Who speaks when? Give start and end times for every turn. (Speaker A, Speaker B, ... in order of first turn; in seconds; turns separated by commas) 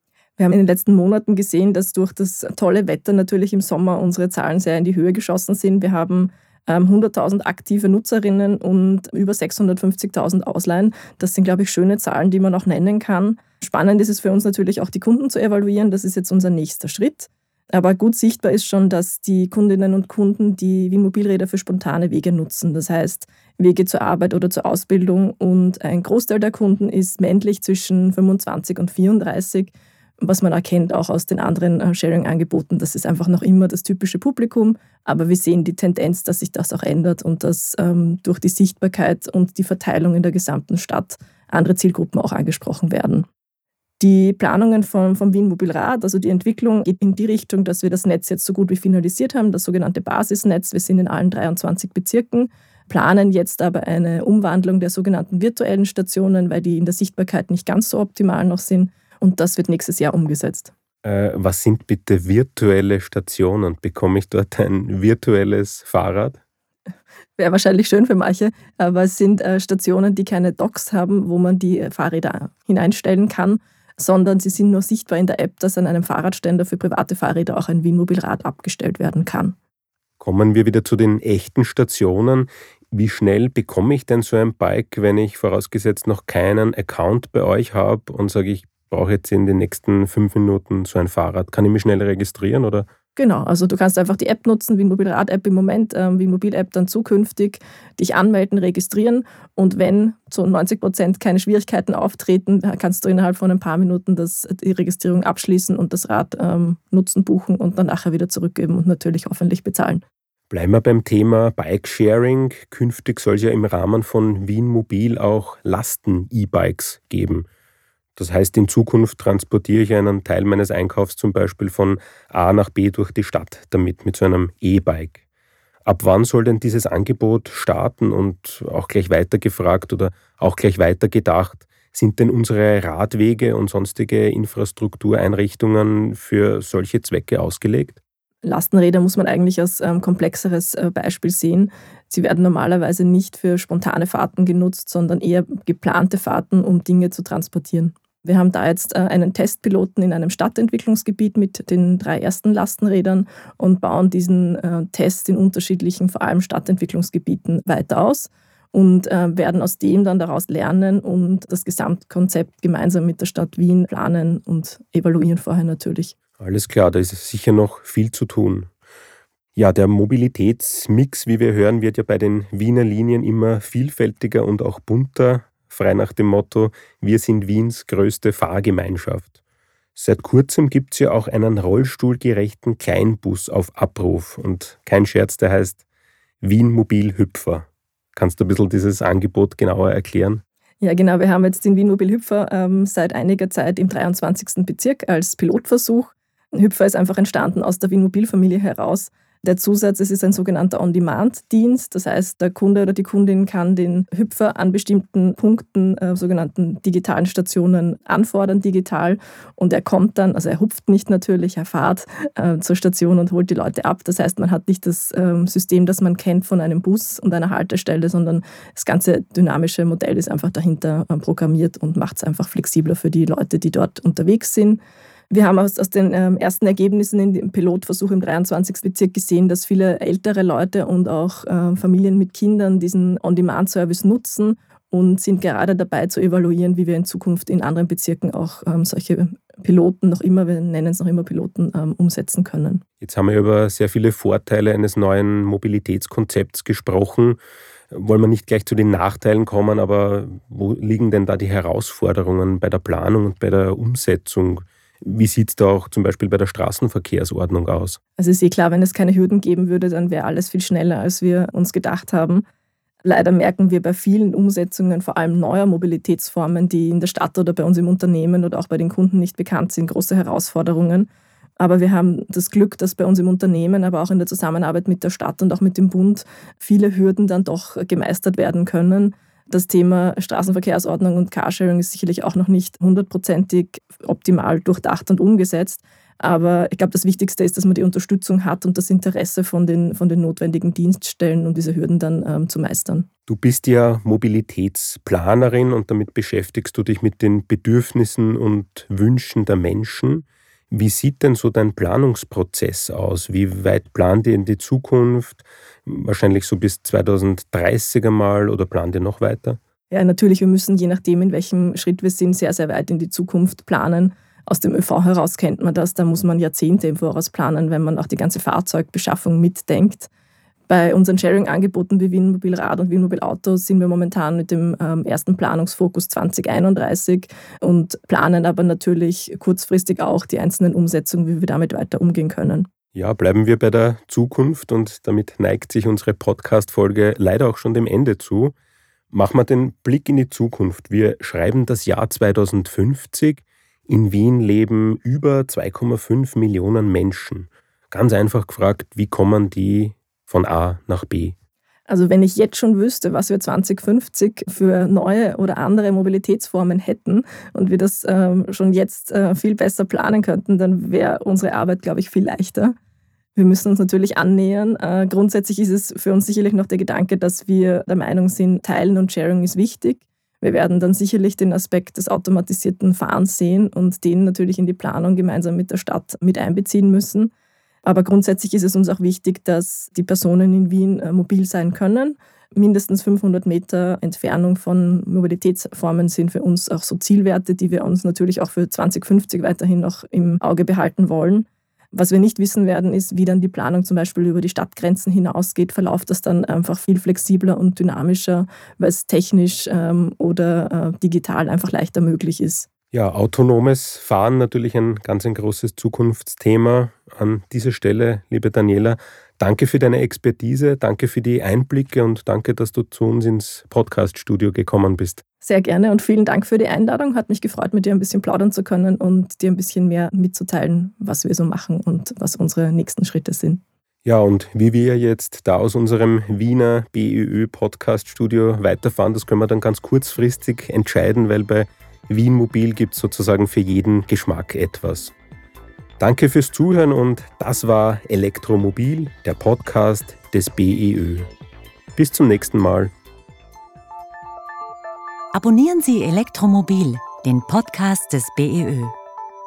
Speaker A: 0.4-43.3, Speaker A: 44.0-60.7, Speaker B: 61.0-66.4, Speaker A: 67.3-79.5, Speaker B: 80.2-92.8, Speaker A: 93.1-110.0, Speaker B: 110.5-117.5, Speaker B: 118.2-125.2, Speaker B: 125.8-138.0, Speaker A: 138.4-166.2, Speaker B: 166.4-168.7, Speaker B: 169.6-179.3, Speaker B: 179.9-185.8, Speaker B: 186.4-190.4, Speaker A: 190.8-242.8, Speaker B: 243.0-247.4, Speaker B: 247.9-258.0, Speaker A: 258.2-262.4, Speaker A: 263.0-293.1, Speaker B: 293.3-309.6, Speaker A: 309.9-320.1, Speaker A: 320.7-332.7, Speaker B: 332.9-338.5, Speaker B: 339.1-351.3, Speaker A: 351.9-362.7, Speaker A: 363.3-377.3, Speaker A: 377.8-402.7, Speaker B: 402.9-415.2, Speaker A: 415.4-423.6, Speaker B: 424.0-435.1, Speaker B: 436.0-441.3, Speaker B: 441.9-442.9, Speaker C: 445.3-448.9